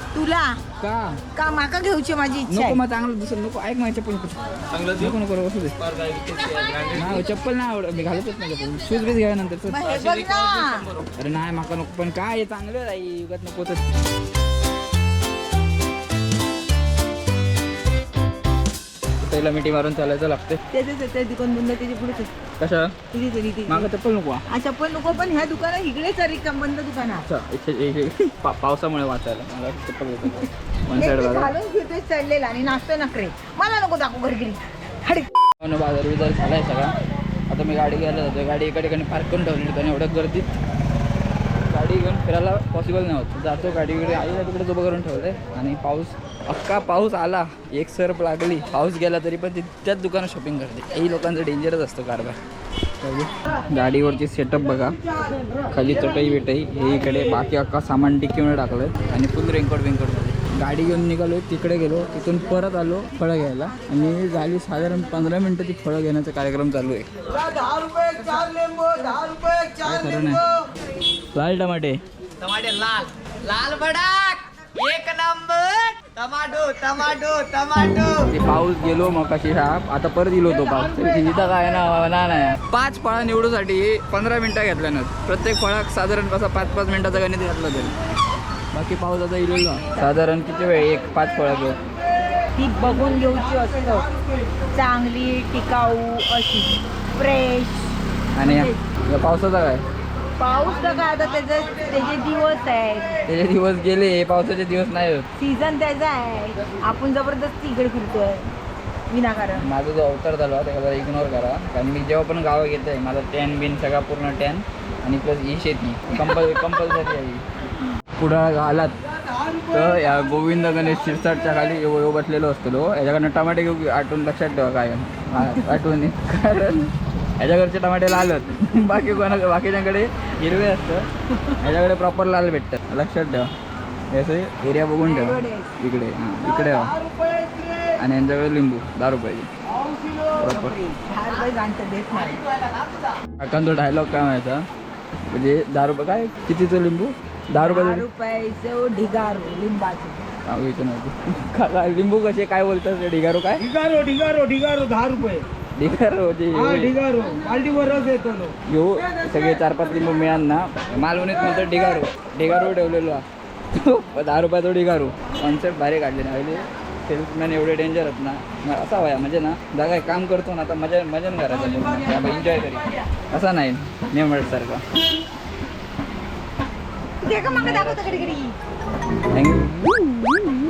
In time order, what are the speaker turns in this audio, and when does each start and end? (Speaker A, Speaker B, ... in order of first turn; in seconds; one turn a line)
Speaker A: 0.1-0.7
Speaker B: 0.8-1.2
Speaker A: 1.3-2.8
Speaker B: 2.5-5.9
Speaker B: 6.9-10.0
Speaker A: 9.7-10.9
Speaker B: 11.1-14.0
Speaker B: 19.2-20.6
Speaker A: 20.7-22.3
Speaker B: 22.6-23.0
Speaker A: 23.1-23.9
Speaker B: 23.7-24.4
Speaker A: 24.5-27.3
Speaker B: 27.0-31.5
Speaker A: 30.9-35.3
Speaker B: 35.6-37.0
Speaker B: 37.5-40.6
Speaker B: 41.6-52.4
Speaker B: 53.0-55.0
Speaker B: 55.7-67.3
Speaker B: 69.8-70.5
Speaker B: 71.3-72.0
Speaker C: 72.4-78.2
Speaker B: 78.2-87.9
Speaker B: 88.7-91.8
Speaker A: 92.5-94.1
Speaker A: 94.7-98.0
Speaker B: 98.4-99.8
Speaker A: 100.4-103.2
Speaker B: 103.3-105.3
Speaker A: 105.4-108.5
Speaker A: 109.1-109.7
Speaker B: 109.5-117.4
Speaker B: 118.2-119.0
Speaker B: 119.7-133.5
Speaker B: 134.1-137.0
Speaker A: 135.0-135.7
Speaker B: 138.0-139.5
Speaker A: 140.2-142.5
Speaker B: 140.4-140.8
Speaker B: 143.4-144.6
Speaker B: 145.3-148.1
Speaker A: 147.6-150.3
Speaker B: 150.5-153.7
Speaker A: 153.7-155.4
Speaker B: 155.8-157.0
Speaker A: 157.0-158.5
Speaker B: 158.7-174.8
Speaker A: 177.2-178.6
Speaker B: 177.3-178.4
Speaker B: 179.3-179.8